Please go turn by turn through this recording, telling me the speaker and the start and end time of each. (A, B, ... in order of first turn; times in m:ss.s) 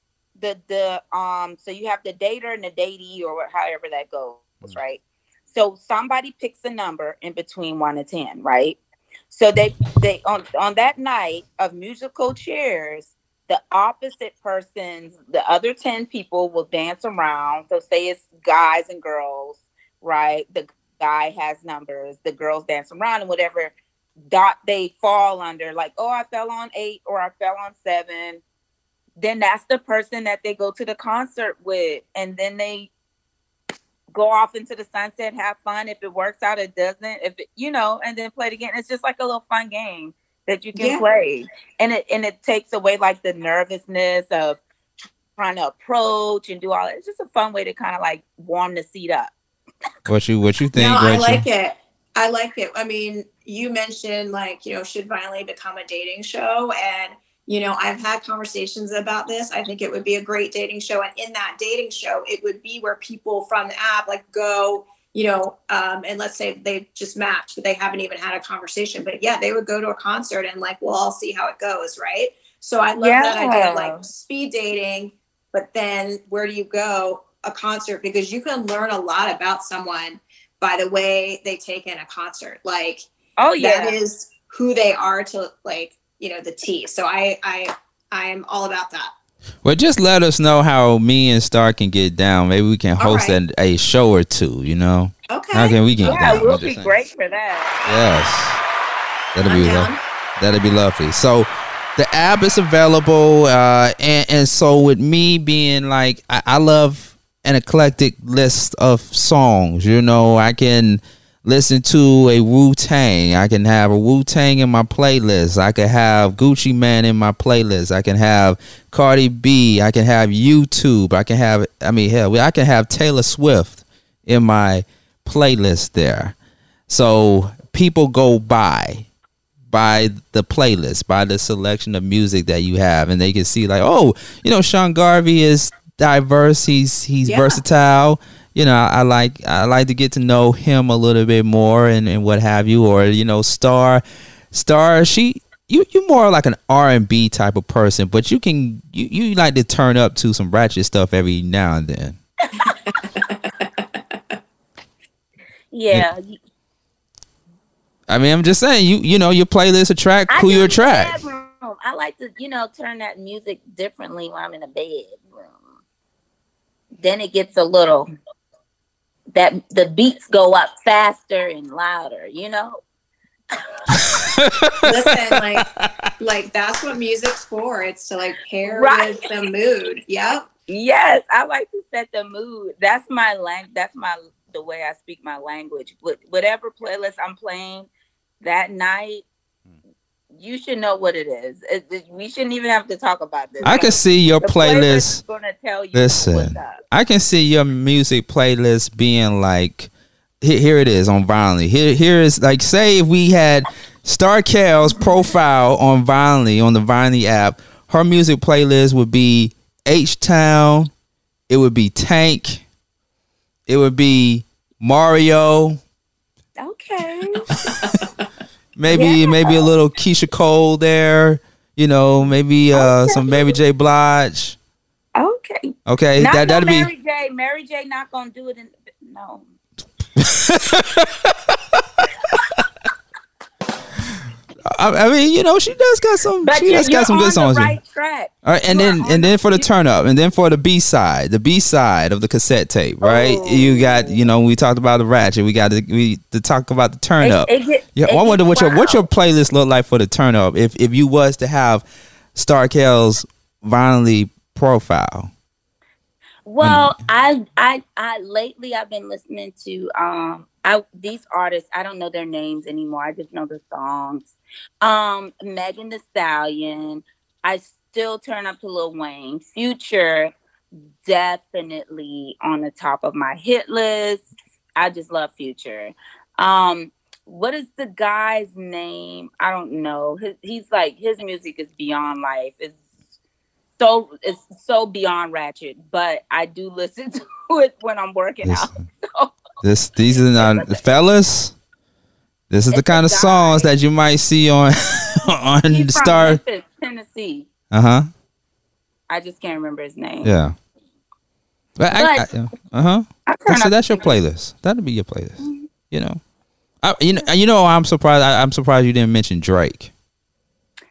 0:00.4-0:08.8 A
0:09.3-0:28.4 A
0:29.2-0:32.9 A
0:34.1-0:44.6 A
0:40.8-0:41.0 B
0:45.4-0:49.3 A
0:50.1-0:51.4 C
0:50.7-1:23.0 B
1:13.0-1:14.0 A
1:23.4-1:24.0 A
1:23.6-1:29.1 B
1:29.6-1:36.9 C
1:33.0-1:33.4 B
1:35.3-1:35.8 B
1:36.0-1:37.8 A
1:37.8-1:38.6 C
1:39.3-2:06.3 C
1:39.4-1:40.0 B
2:06.9-2:09.1 C
2:09.7-2:32.2 C
2:17.2-2:17.6 B
2:32.5-2:32.7 A
2:33.1-2:34.2 B
2:35.7-2:36.4 A
2:38.1-2:41.2 C
2:40.3-2:45.7 A
2:47.0-2:48.1 A
2:49.3-2:52.8 A
2:53.5-2:53.8 A
2:53.9-2:54.8 C
2:54.8-2:55.7 B
2:55.5-2:55.9 C
2:56.2-3:00.5 B
2:58.7-2:59.2 A
3:00.7-3:07.9 A
3:08.4-3:09.2 A
3:10.3-3:16.8 A
3:13.6-3:15.2 C
3:15.9-3:19.9 C
3:20.4-3:30.9 C
3:31.5-3:32.6 C
3:33.7-3:35.8 C
3:36.6-3:37.5 A
3:37.6-3:38.0 C
3:38.8-3:44.6 C
3:38.9-3:39.6 A
3:42.7-3:43.5 A
3:45.1-3:49.4 A
3:45.9-3:46.9 C
3:50.2-3:52.4 C
3:54.7-3:57.7 C
3:56.4-3:59.7 A
3:58.4-4:11.8 C
4:03.0-4:04.2 A
4:07.2-4:09.0 A
4:12.3-4:15.3 C
4:16.4-4:30.3 A
4:16.6-4:17.0 C
4:31.0-4:34.2 A
4:34.8-4:42.8 A
4:43.8-4:49.4 A
4:49.6-4:51.5 C
4:50.3-4:50.8 A
4:52.5-4:56.4 C
4:52.7-4:53.7 A
4:55.7-4:57.5 A
4:57.7-4:58.1 C
4:59.1-5:00.3 A
5:00.2-5:00.5 C
5:01.8-5:06.2 C
5:01.9-5:02.3 A
5:03.3-5:04.1 A
5:05.4-5:05.7 A
5:06.8-5:09.9 C